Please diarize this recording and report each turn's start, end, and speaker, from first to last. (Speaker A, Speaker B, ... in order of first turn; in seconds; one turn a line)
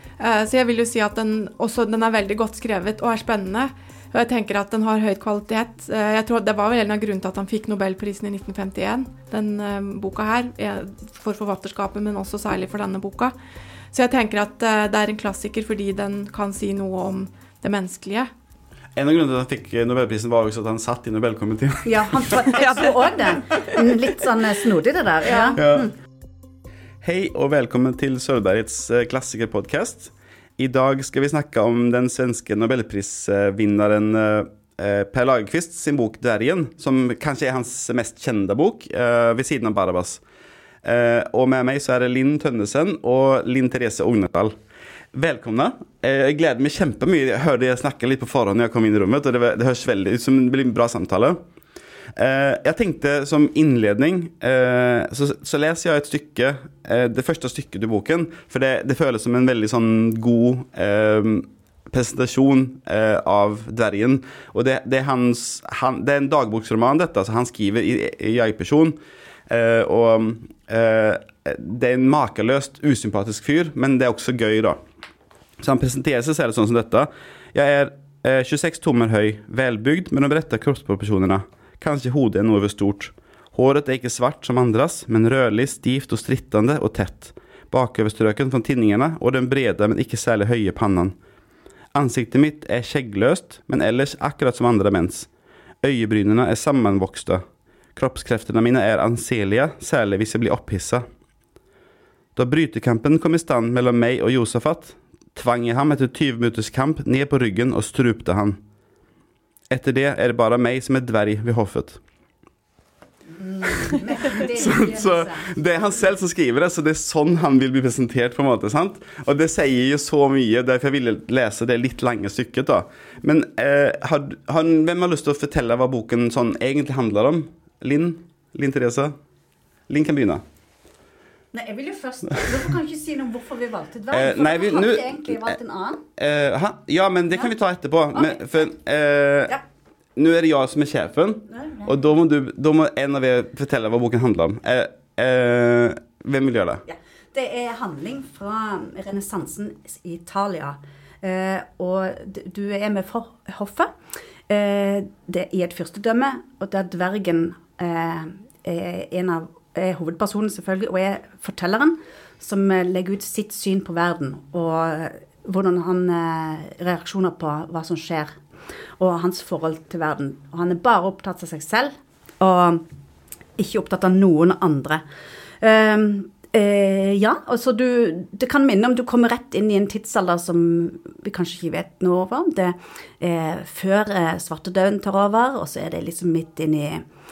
Speaker A: 0.2-13.3
Speaker A: 13.9-18.3
Speaker B: 18.9-22.9
Speaker C: 21.9-25.9
Speaker B: 25.6-25.9
Speaker B: 27.0-40.2
Speaker B: 40.8-44.6
Speaker B: 45.1-51.4
Speaker B: 52.2-74.8
Speaker B: 75.6-91.2
Speaker B: 91.9-95.3
Speaker B: 95.8-97.4
Speaker B: 98.0-101.0
Speaker B: 102.4-108.6
Speaker B: 109.7-112.0
Speaker C: 113.3-115.5
Speaker B: 113.9-129.2
Speaker B: 129.9-130.4
Speaker C: 131.5-136.0
Speaker B: 134.1-135.5
Speaker B: 136.2-139.6
Speaker C: 138.2-138.4
Speaker B: 140.2-146.8
Speaker C: 146.9-153.9
Speaker C: 154.5-168.4
Speaker C: 169.0-172.8
Speaker C: 173.6-175.0
Speaker C: 175.6-187.1